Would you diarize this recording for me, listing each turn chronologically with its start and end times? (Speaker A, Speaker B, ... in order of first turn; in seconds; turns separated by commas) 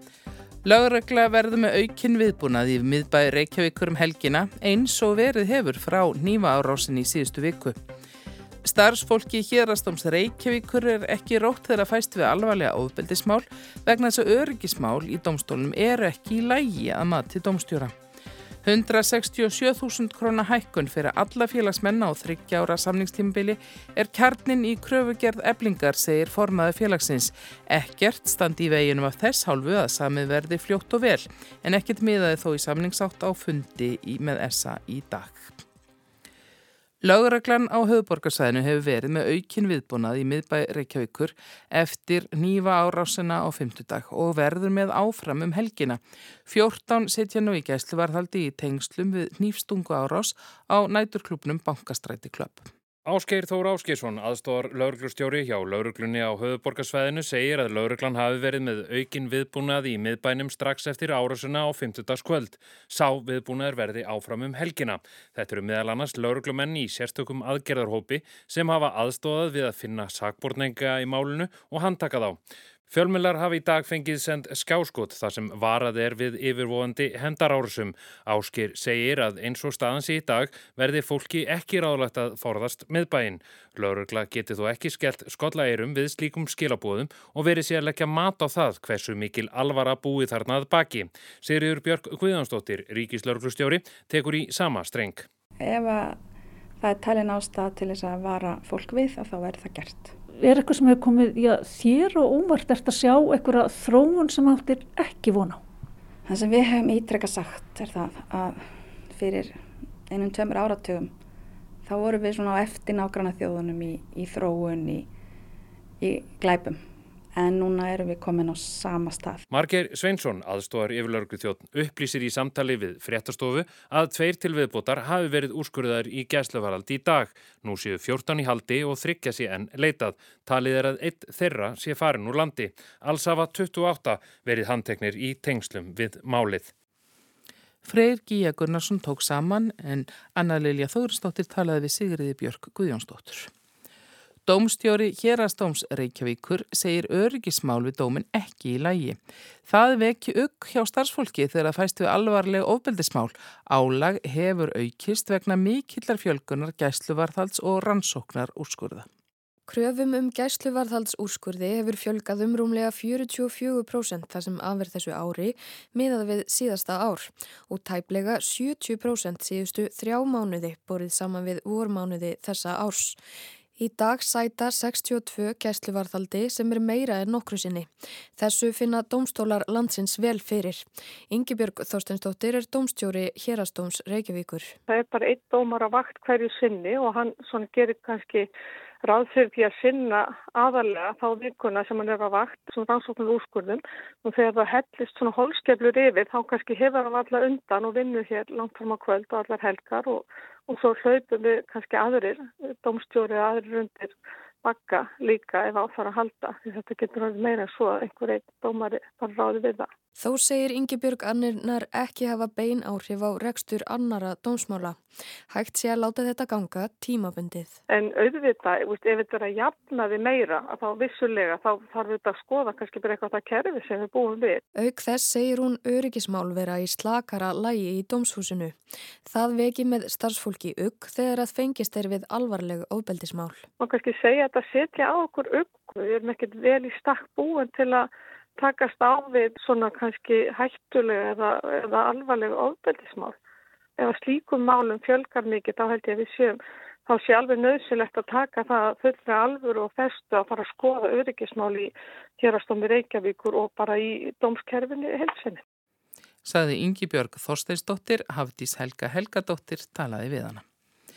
Speaker A: 0.6-7.8, Speaker A: 8.6-17.9, Speaker A: 18.6-35.6, Speaker A: 37.0-52.7, Speaker B: 53.0-95.3, Speaker C: 95.6-96.2, Speaker C: 96.8-100.2, Speaker D: 100.4-105.6, Speaker C: 106.3-111.1, Speaker C: 111.8-115.1, Speaker C: 116.0-119.4, Speaker B: 119.5-136.7, Speaker A: 137.8-143.5, Speaker A: 144.4-159.1, Speaker E: 159.7-173.2, Speaker E: 173.8-184.8, Speaker F: 184.9-188.5, Speaker F: 189.0-209.9, Speaker E: 210.2-217.8, Speaker F: 217.9-224.6, Speaker E: 224.7-233.7, Speaker F: 233.8-243.3, Speaker F: 244.0-255.6, Speaker A: 256.4-260.6